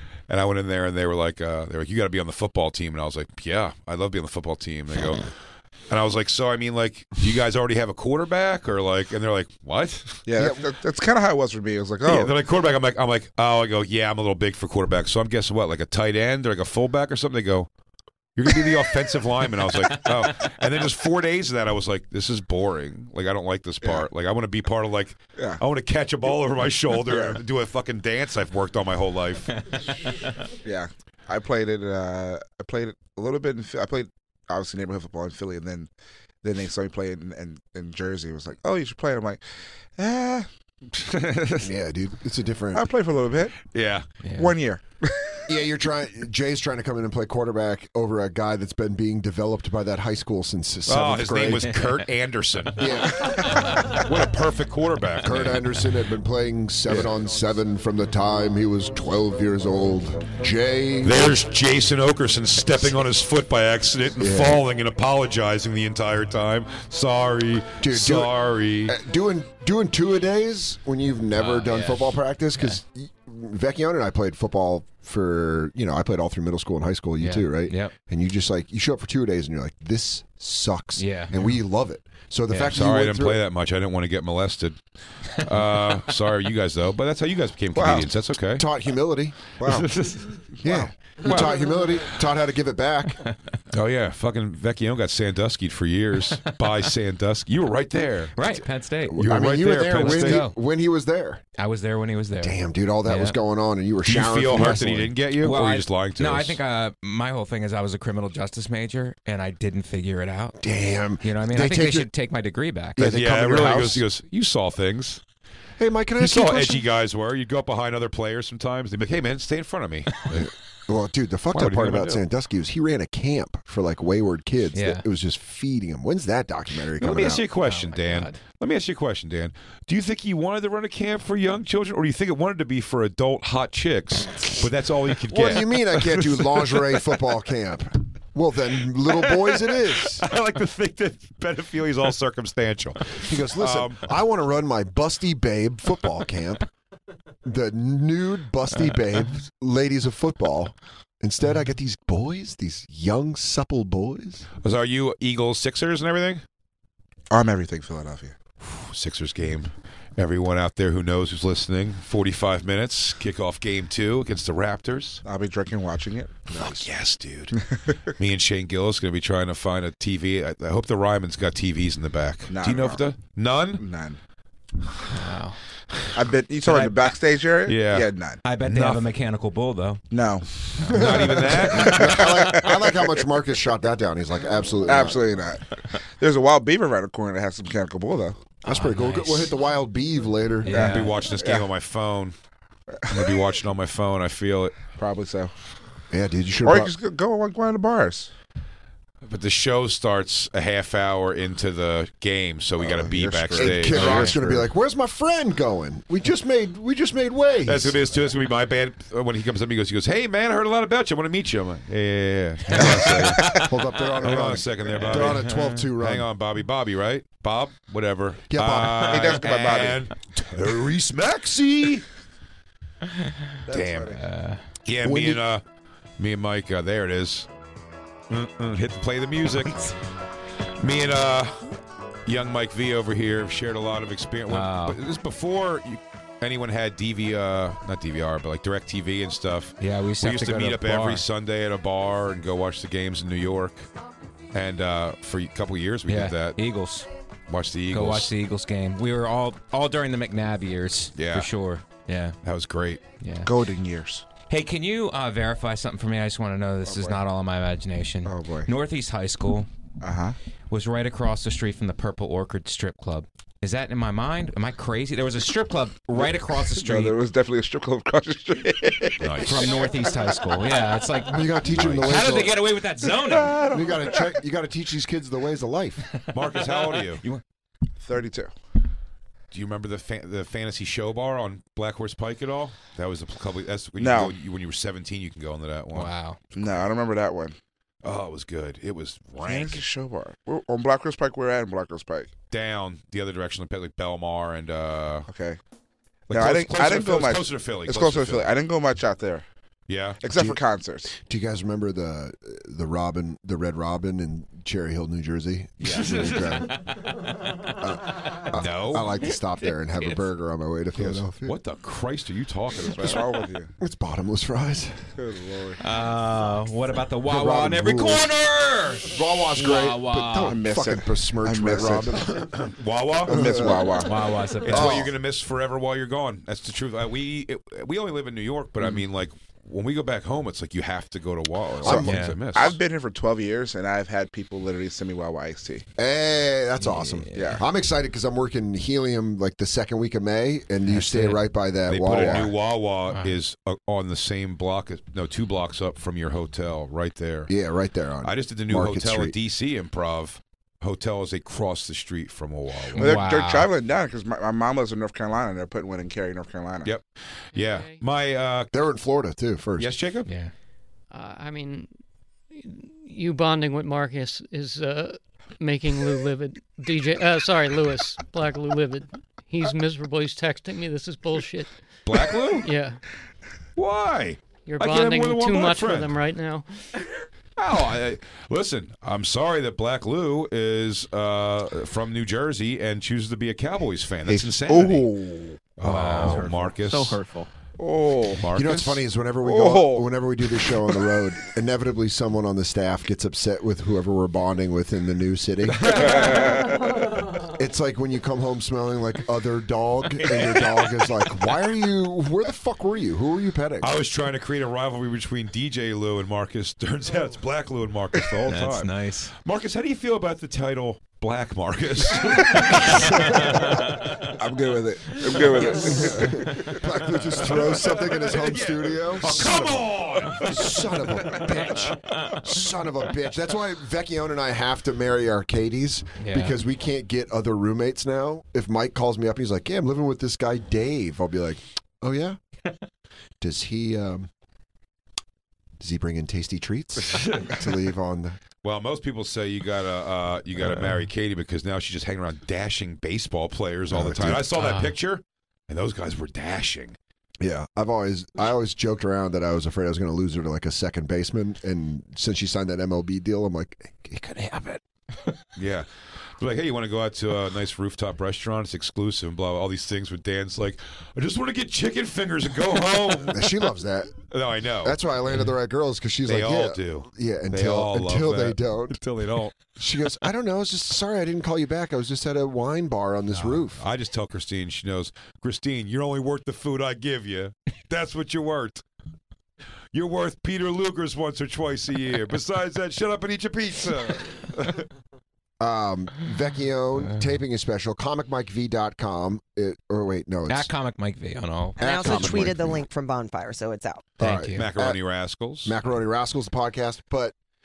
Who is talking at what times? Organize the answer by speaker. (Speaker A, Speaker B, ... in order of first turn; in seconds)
Speaker A: 0.3-5.3, 5.9-10.2, 12.1-17.7, 18.4-29.6, 43.7-44.1, 50.9-55.6, 61.0-69.0, 82.7-84.8, 85.3-88.7, 93.7-98.3, 99.2-100.4, 104.1-106.6, 113.0-115.2, 116.2-120.5, 121.5-122.2, 127.0-136.3, 139.3-139.6, 140.1-144.0, 154.6-156.4, 158.6-165.2, 166.6-167.6, 168.2-173.8, 177.7-178.1, 178.6-179.1, 180.9-182.3, 190.7-192.3, 193.1-194.9, 199.2-204.7, 207.7-213.6, 214.2-222.1, 223.7-224.2, 224.8-225.6, 226.2-227.5, 228.3-229.9, 230.8-231.8, 232.3-243.9, 244.5-246.6, 247.5-248.3, 251.2-251.5, 252.4-253.0, 269.2-269.8, 271.7-272.3, 276.3-277.2, 279.5-286.1, 288.0-289.8, 292.5-295.3, 296.3-298.5, 299.9-300.2, 306.0-306.7, 308.5-309.1, 311.4-313.2, 322.3-323.6, 324.6-332.8, 341.9-347.5, 348.2-353.2, 356.9-358.7, 359.8-360.3, 372.1-372.7, 373.8-376.2, 377.6-385.1, 385.6-387.2, 388.4-389.0, 395.8-396.6, 400.2-400.7, 403.8-413.6, 417.4-421.9, 438.6-447.0, 455.6-455.9, 456.4-463.7, 464.3-465.0, 466.3-469.6, 473.5-478.8, 479.9-484.9, 494.6-495.7
Speaker B: 10.3-12.3, 23.8-24.1, 27.1-27.4, 30.6-35.9, 36.4-39.4, 40.0-41.6, 42.7-43.5, 44.3-45.1, 87.8-88.1, 157.3-158.3, 165.2-166.3, 167.5-168.1, 172.5-173.1, 173.8-174.2, 176.1-178.4, 180.1-180.5, 182.1-183.2, 184.8-188.4, 190.7-191.7, 194.9-195.5, 196.6-198.3, 202.8-204.2, 219.1-220.0, 223.7-224.1, 253.4-254.3, 256.9-257.2, 258.3-258.7, 260.0-260.4, 266.2-269.9, 273.2-274.3, 278.0-278.5, 284.0-284.3, 286.5-287.6, 289.4-292.3, 295.3-295.6, 296.3-299.4, 300.2-301.1, 312.9-313.7, 315.2-315.8, 320.4-322.2, 323.3-324.1, 331.9-335.9, 337.4-337.6, 353.0-356.9, 384.3-385.6, 387.8-388.5, 389.4-391.0, 396.0-396.9, 414.4-416.5
Speaker C: 41.6-42.8, 45.5-51.8, 52.8-53.6, 55.2-61.4, 64.2-64.6, 67.8-83.4, 88.6-89.9, 90.6-93.2, 99.1-101.4, 102.4-105.1, 110.6-112.1, 113.0-114.0, 115.8-116.9, 120.3-127.5, 135.3-140.2, 143.1-146.7, 147.4-154.5, 166.5-166.9, 181.0-185.4, 188.6-190.9, 196.1-196.9, 203.0-208.0, 212.8-216.3, 218.5-219.4, 225.0-225.4, 271.2-272.6, 273.7-276.0, 300.3-300.6, 301.1-306.8, 307.8-311.6, 313.8-315.2, 317.3-318.3, 319.1-322.5, 323.3-324.1, 324.6-325.1, 331.8-332.1, 336.0-342.5, 347.5-349.4, 358.7-359.9, 388.5-396.1, 397.4-404.0, 413.0-413.4, 415.6-432.4, 433.4-434.3, 435.8-438.4, 440.6-440.9, 443.9-444.6, 447.4-454.8, 463.3-464.2, 464.8-469.0, 469.8-473.9, 485.6-490.7, 491.8-492.8, 494.2-495.0, 495.6-497.4
Speaker D: 44.2-44.5, 71.3-72.8, 77.2-77.9, 81.0-81.4, 82.5-82.8, 89.8-90.3, 98.3-100.6, 101.6-103.4, 105.4-110.6, 111.2-113.1, 124.7-125.0, 127.6-128.4, 175.1-175.6, 178.4-180.0, 180.8-182.3, 188.7-189.5, 190.6-191.2, 203.9-204.3, 212.7-213.7, 215.0-215.9, 224.1-224.6, 234.5-235.0, 239.8-241.2, 246.1-247.1, 247.9-252.4, 253.2-253.5, 254.5-259.7, 260.7-267.2, 269.4-273.6, 276.2-277.4, 285.9-286.4, 305.8-307.2, 315.8-320.6, 324.0-325.0, 331.9-332.4, 336.8-337.6, 340.9-341.4, 343.1-343.4, 352.9-353.7, 360.2-360.5, 385.8-387.5, 408.5-409.3, 412.7-414.2, 415.9-416.6, 422.1-422.4, 426.2-426.6, 444.6-444.9, 490.5-492.7, 494.2-494.7
Speaker E: 357.5-358.0, 361.1-362.0, 362.5-373.0, 374.7-376.7
Speaker F: 491.8-494.1